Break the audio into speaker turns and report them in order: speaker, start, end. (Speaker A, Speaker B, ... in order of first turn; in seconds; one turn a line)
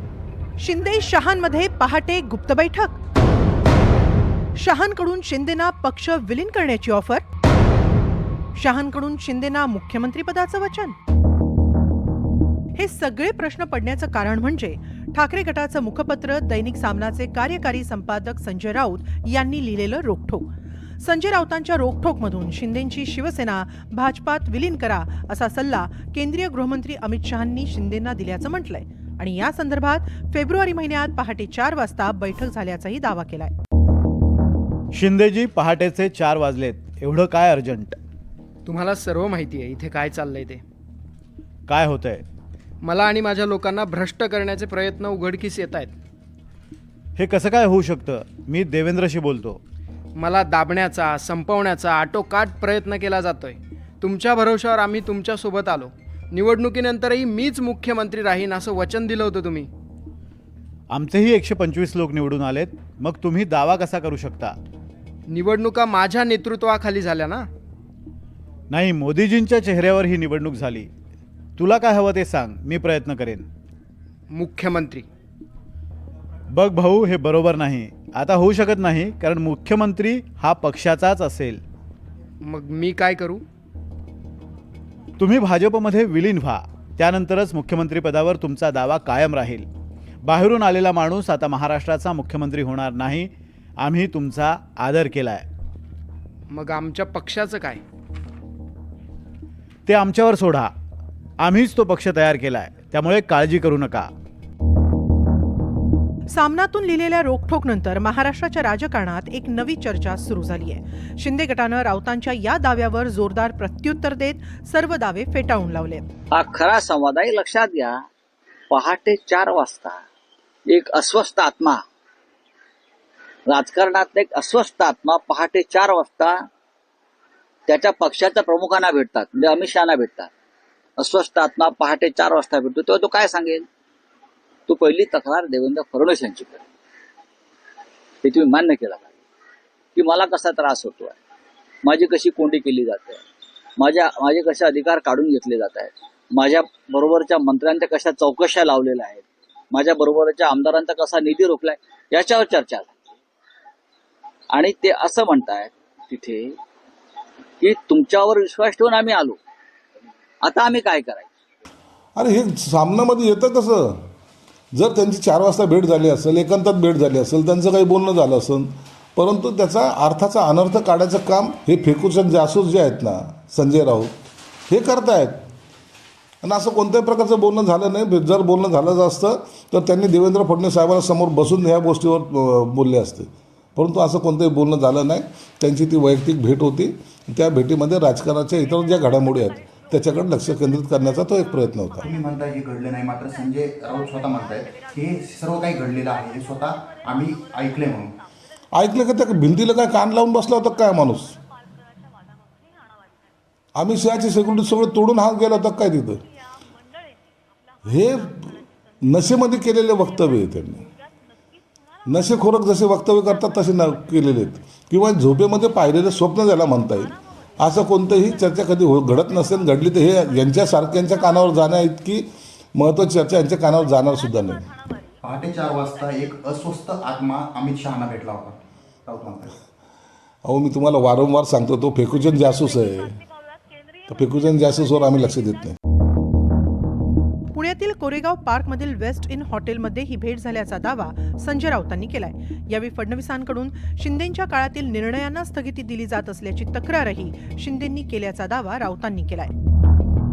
Speaker A: 0.6-3.0
Speaker A: 4.5-7.2
Speaker A: 8.5-11.0
Speaker A: 12.7-33.5
Speaker B: 34.9-38.0
Speaker C: 38.6-40.6
Speaker B: 41.7-42.2
Speaker C: 42.8-45.9
Speaker B: 47.1-49.6
Speaker C: 50.1-59.7
Speaker B: 60.9-64.6
Speaker C: 65.3-67.5
Speaker B: 68.7-70.9
Speaker B: 71.6-73.5
Speaker C: 74.3-75.1
Speaker B: 76.5-81.6
Speaker C: 82.4-83.4
Speaker B: 85.2-89.7
Speaker B: 90.2-95.5
Speaker C: 96.5-97.8
Speaker B: 99.8-100.7
Speaker B: 101.4-104.1
Speaker A: 106.3-116.0
Speaker D: 116.3-118.0
Speaker D: 118.7-120.0
Speaker D: 120.7-121.8
Speaker D: 123.5-126.5
Speaker D: 127.7-130.3
Speaker D: 131.0-133.7
Speaker D: 134.7-136.6
Speaker D: 138.2-139.1
Speaker D: 139.9-141.2
Speaker D: 141.8-143.2
Speaker D: 143.8-153.0
Speaker D: 154.5-156.5
Speaker D: 157.6-159.4
Speaker D: 160.4-161.3
Speaker E: 162.2-164.0
Speaker E: 164.7-174.2
Speaker E: 174.7-175.4
Speaker E: 176.4-192.1
Speaker F: 192.0-198.1
Speaker E: 198.8-201.4
Speaker E: 203.8-206.2
Speaker E: 207.9-210.8
Speaker E: 212.1-224.7
Speaker F: 225.2-229.5
Speaker E: 230.4-233.2
Speaker E: 234.1-235.8
Speaker A: 237.5-249.5